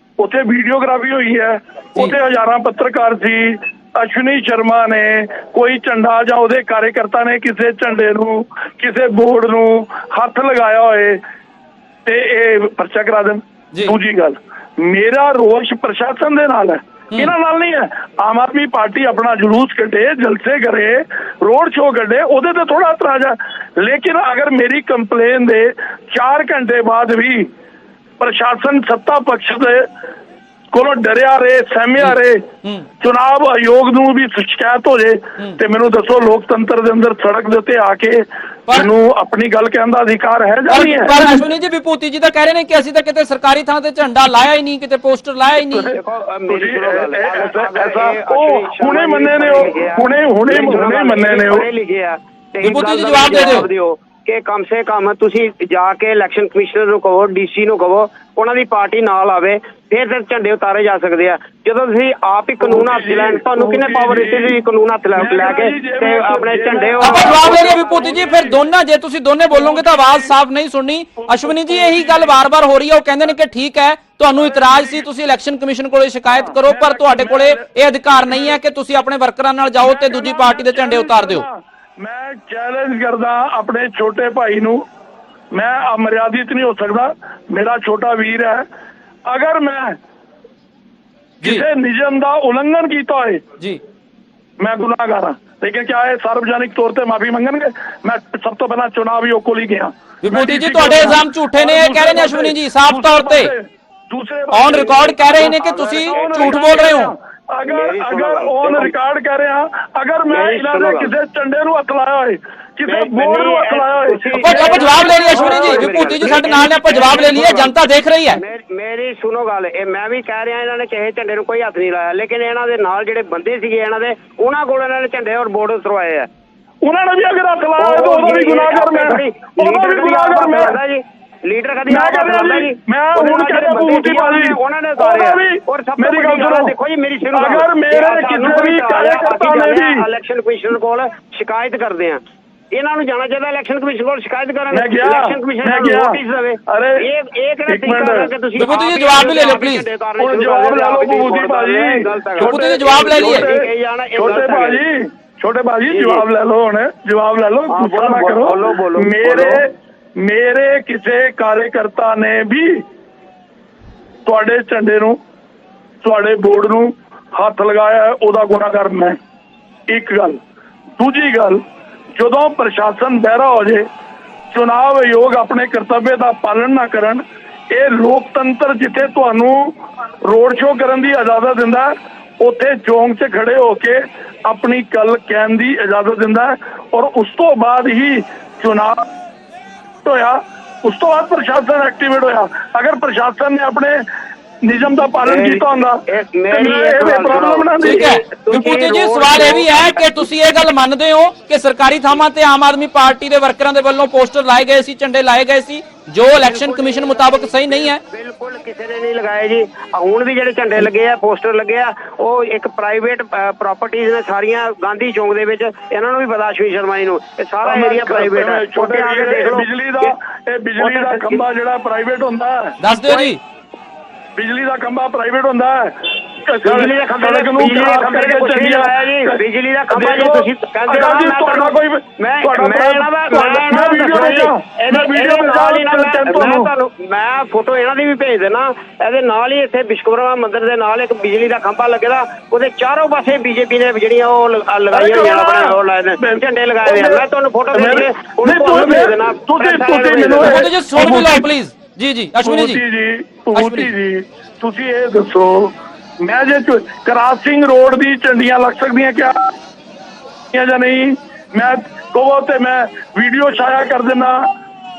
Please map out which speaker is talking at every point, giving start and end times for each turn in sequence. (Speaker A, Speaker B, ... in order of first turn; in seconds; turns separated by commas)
Speaker A: 0.2-11.2, Speaker A: 12.1-27.5, Speaker A: 28.2-29.9, Speaker A: 30.7-32.5, Speaker B: 32.0-32.9, Speaker A: 33.0-41.1, Speaker B: 40.7-46.0, Speaker A: 45.7-46.0, Speaker C: 46.0-67.8, Speaker A: 46.5-51.7, Speaker B: 52.6-53.7, Speaker A: 62.6-64.6, Speaker A: 65.1-68.6, Speaker B: 67.0-81.5, Speaker A: 69.5-70.3, Speaker A: 71.2-72.4, Speaker A: 74.3-75.1, Speaker A: 76.3-78.6, Speaker A: 79.8-84.8, Speaker A: 85.5-88.7, Speaker A: 89.3-90.0, Speaker A: 91.4-93.4, Speaker A: 94.6-116.1, Speaker B: 100.2-103.5, Speaker B: 104.5-107.1, Speaker C: 106.1-106.6, Speaker C: 107.7-108.9, Speaker C: 110.3-111.1, Speaker C: 112.9-117.8, Speaker B: 114.4-118.4, Speaker C: 118.3-126.3, Speaker A: 126.8-130.8, Speaker C: 127.8-142.2, Speaker A: 131.9-136.8, Speaker A: 137.3-140.1, Speaker C: 142.7-154.8, Speaker A: 144.7-147.1, Speaker A: 147.7-148.3, Speaker B: 148.6-149.9, Speaker A: 150.2-162.8, Speaker B: 152.4-153.5, Speaker C: 155.9-156.3, Speaker C: 157.7-159.6, Speaker A: 164.3-165.2, Speaker A: 166.0-169.2, Speaker A: 169.9-170.4, Speaker A: 171.0-171.6, Speaker A: 172.2-173.9, Speaker A: 174.5-189.1, Speaker A: 190.0-194.1, Speaker A: 194.6-198.1, Speaker C: 195.2-200.2, Speaker B: 197.8-208.0, Speaker C: 206.4-220.1, Speaker A: 217.6-223.3, Speaker C: 220.8-221.4, Speaker B: 222.8-223.4, Speaker A: 224.3-236.7, Speaker C: 226.6-250.6, Speaker A: 244.9-251.5, Speaker B: 250.4-252.8, Speaker A: 252.4-259.5, Speaker B: 253.6-253.9, Speaker A: 260.5-264.5